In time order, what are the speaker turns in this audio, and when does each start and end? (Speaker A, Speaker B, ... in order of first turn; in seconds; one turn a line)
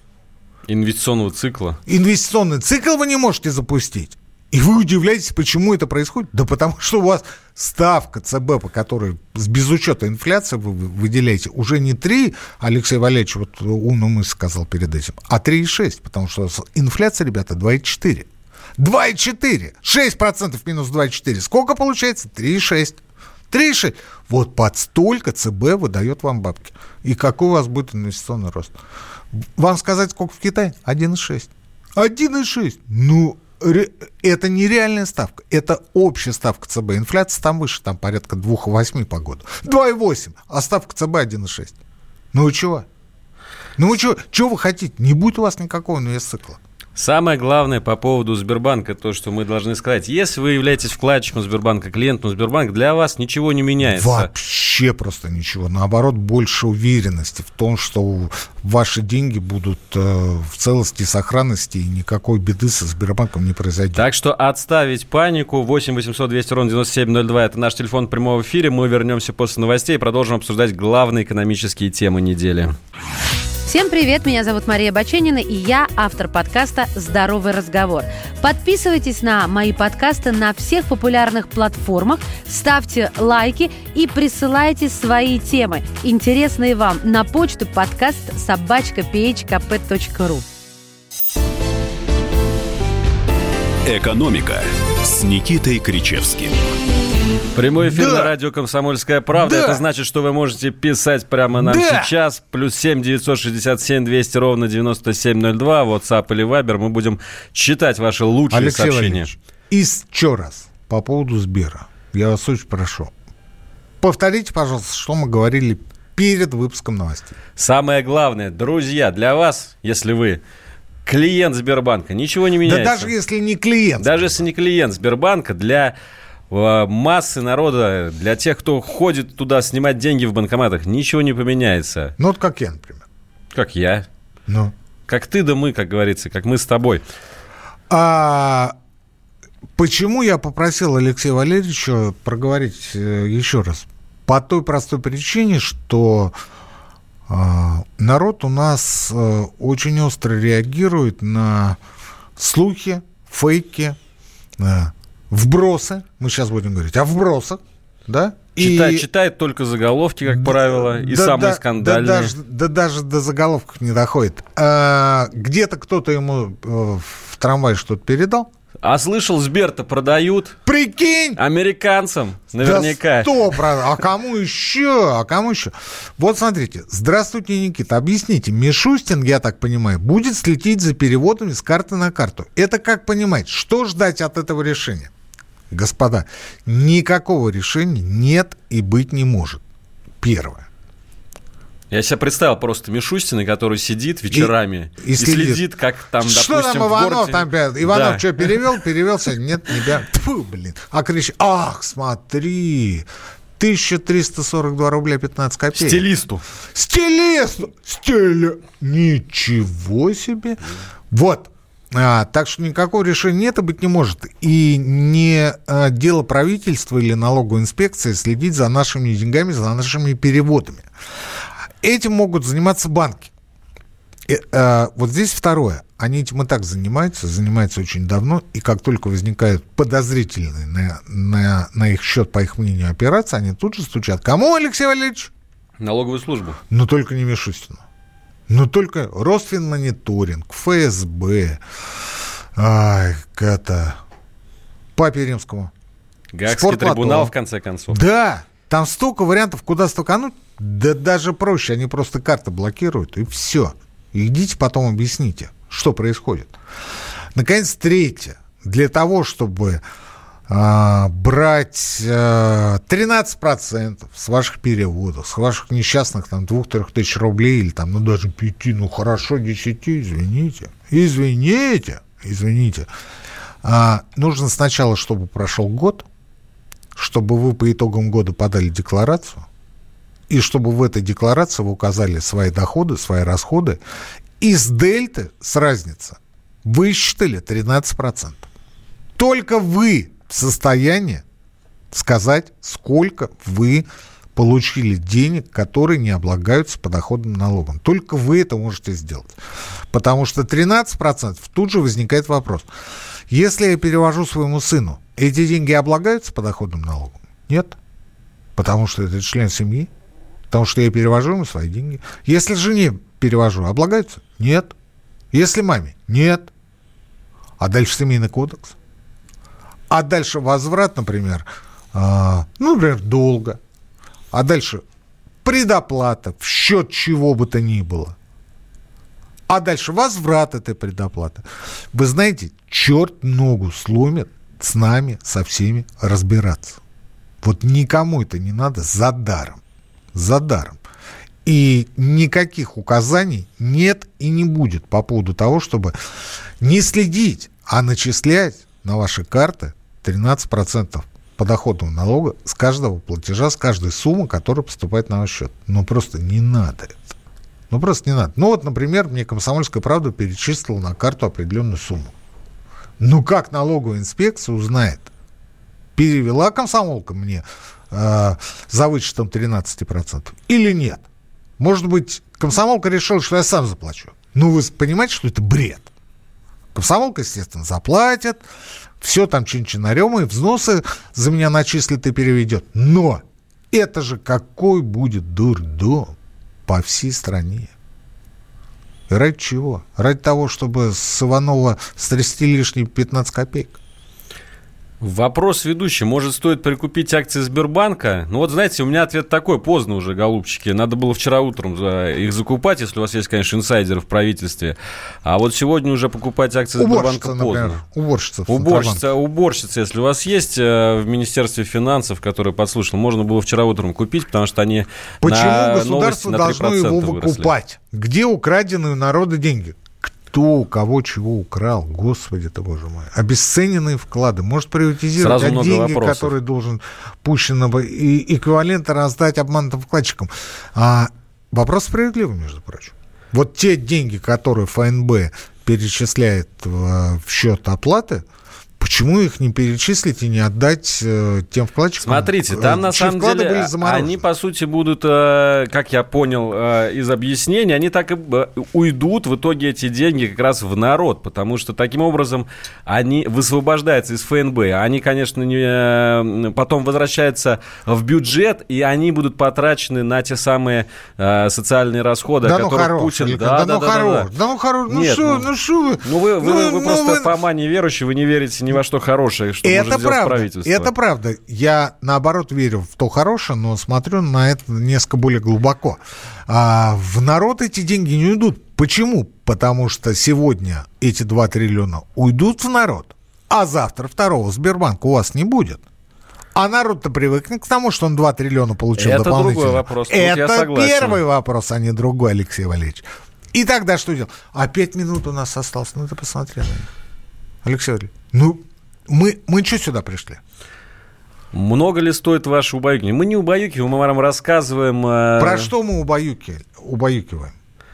Speaker A: 0.7-1.8
Speaker B: 1.9-23.0
Speaker B: 23.5-28.8
Speaker B: 29.3-41.7
Speaker B: 42.3-42.9
Speaker B: 43.8-46.6
Speaker A: 47.0-54.3
Speaker B: 53.8-64.0
Speaker A: 63.9-72.7
Speaker C: 73.7-90.4
Speaker D: 93.8-96.7
Speaker A: 97.5-109.3
Speaker B: 97.8-98.3
Speaker B: 99.3-99.8
Speaker B: 101.6-102.1
Speaker B: 108.5-113.1
Speaker B: 114.0-117.3
Speaker A: 117.6-120.4
Speaker A: 121.0-123.1
Speaker B: 122.6-124.4
Speaker A: 124.0-125.9
Speaker A: 126.5-132.1
Speaker B: 132.2-133.0
Speaker A: 133.5-134.1
Speaker B: 134.5-134.7
Speaker A: 135.1-137.0
Speaker B: 137.9-138.7
Speaker B: 139.8-146.3
Speaker B: 147.3-151.8
Speaker B: 152.3-154.0
Speaker B: 154.6-159.1
Speaker A: 158.6-162.3
Speaker B: 160.2-168.5
Speaker A: 168.8-170.6
Speaker B: 170.7-171.4
Speaker A: 171.4-173.6
Speaker B: 172.6-185.1
Speaker B: 185.7-189.6
Speaker B: 190.2-190.7
Speaker A: 191.9-198.5
Speaker B: 194.3-195.6
Speaker B: 196.2-203.1
Speaker B: 203.6-206.1
Speaker A: 205.7-206.4
Speaker B: 206.7-220.8
Speaker B: 221.8-223.3
Speaker B: 224.3-235.3
Speaker A: 235.8-236.6
Speaker B: 236.7-237.8
Speaker B: 238.5-241.6
Speaker B: 242.6-244.0
Speaker B: 244.9-245.7
Speaker A: 246.3-248.0
Speaker B: 246.4-247.3
Speaker B: 247.9-256.6
Speaker B: 257.3-259.8
Speaker B: 260.5-272.9
Speaker B: 273.6-276.1
Speaker B: 276.9-279.4
Speaker B: 280.3-283.8
Speaker B: 284.4-288.5
Speaker B: 289.1-291.2
Speaker B: 291.9-299.4
Speaker B: 299.9-302.7
Speaker B: 303.3-307.8
Speaker B: 308.6-309.9
Speaker B: 310.5-314.7
Speaker B: 315.3-316.5
Speaker B: 317.6-318.7
Speaker B: 319.9-323.6
Speaker B: 324.3-324.8
Speaker B: 325.4-328.1
Speaker B: 329.5-336.8
Speaker B: 337.4-339.6
Speaker B: 340.1-340.8
Speaker B: 341.4-346.0
Speaker B: 346.6-357.1
Speaker B: 357.7-362.1
Speaker B: 363.0-365.1
Speaker B: 365.9-371.0
Speaker B: 371.6-375.9
Speaker B: 376.7-378.4
Speaker B: 379.0-386.1
Speaker B: 386.7-387.7
Speaker B: 389.1-393.8
Speaker A: 395.0-407.8
Speaker B: 406.8-409.1
Speaker A: 408.5-417.5
Speaker B: 415.2-438.2
Speaker A: 425.2-426.3
Speaker B: 438.8-444.2
Speaker A: 442.0-464.3
Speaker B: 462.4-467.3
Speaker A: 464.9-465.4
Speaker A: 466.0-470.9
Speaker B: 469.6-485.8
Speaker B: 486.5-496.9
Speaker A: 488.9-491.2
Speaker B: 497.6-500.4
Speaker A: 501.5-505.7
Speaker B: 505.4-507.5